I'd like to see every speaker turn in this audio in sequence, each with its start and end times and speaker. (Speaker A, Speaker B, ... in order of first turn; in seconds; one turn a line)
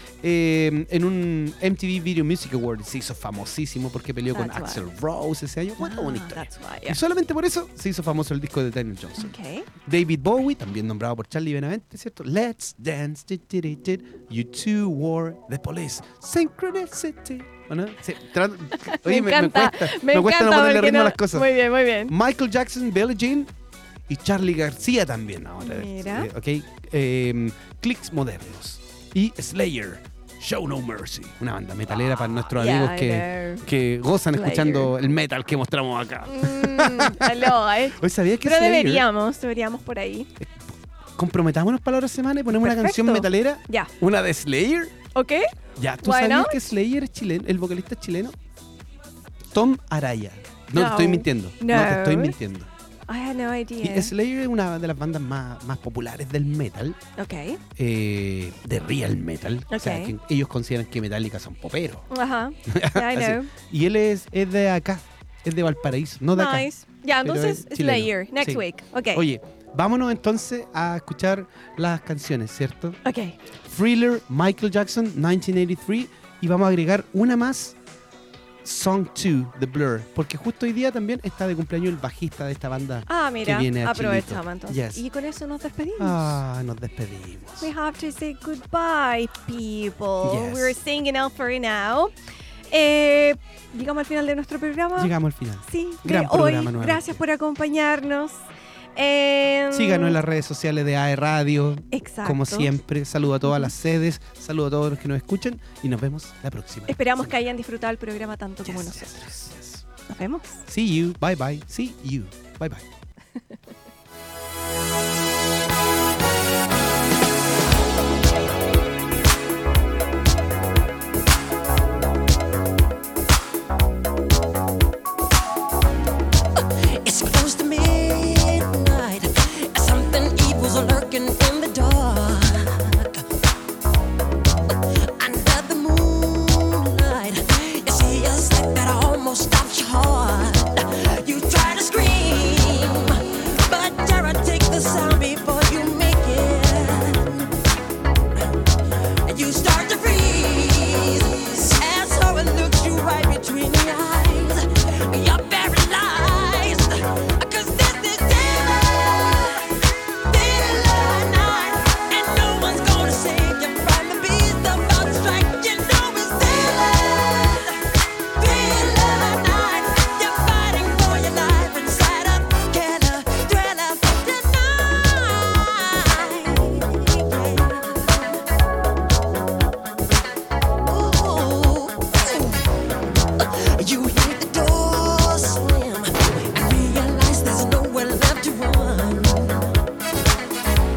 Speaker A: 0.2-23.5
Speaker B: 4.3-4.8
Speaker B: 5.8-7.0
Speaker B: 9.2-9.7
Speaker B: 18.8-22.1
Speaker A: 24.1-39.1
Speaker B: 25.6-26.3
Speaker B: 31.9-33.6
Speaker B: 34.3-34.9
Speaker B: 36.2-40.3
Speaker A: 41.2-45.0
Speaker B: 42.5-43.9
Speaker B: 45.1-46.6
Speaker A: 45.8-48.4
Speaker A: 49.5-52.7
Speaker B: 50.7-52.4
Speaker B: 53.1-54.1
Speaker A: 53.8-57.0
Speaker B: 57.2-57.6
Speaker A: 57.8-62.1
Speaker B: 59.7-60.1
Speaker B: 62.1-63.5
Speaker A: 62.7-73.0
Speaker B: 66.3-69.2
Speaker B: 73.0-73.4
Speaker A: 73.7-77.8
Speaker A: 78.7-85.0
Speaker B: 83.1-86.4
Speaker A: 86.0-87.7
Speaker B: 87.6-92.1
Speaker A: 90.2-90.8
Speaker B: 92.7-95.1
Speaker A: 95.0-97.2
Speaker B: 95.7-98.4
Speaker B: 99.0-100.2
Speaker A: 99.7-107.4
Speaker B: 101.9-102.7
Speaker B: 103.4-103.7
Speaker B: 106.9-109.3
Speaker A: 108.7-109.8
Speaker B: 110.1-110.6
Speaker A: 110.7-112.8
Speaker C: 126.8-133.2
Speaker C: 135.2-147.5
Speaker C: 149.3-159.6
Speaker C: 160.2-167.8
Speaker C: 168.4-178.4
Speaker C: 180.9-182.7
Speaker C: 183.4-189.7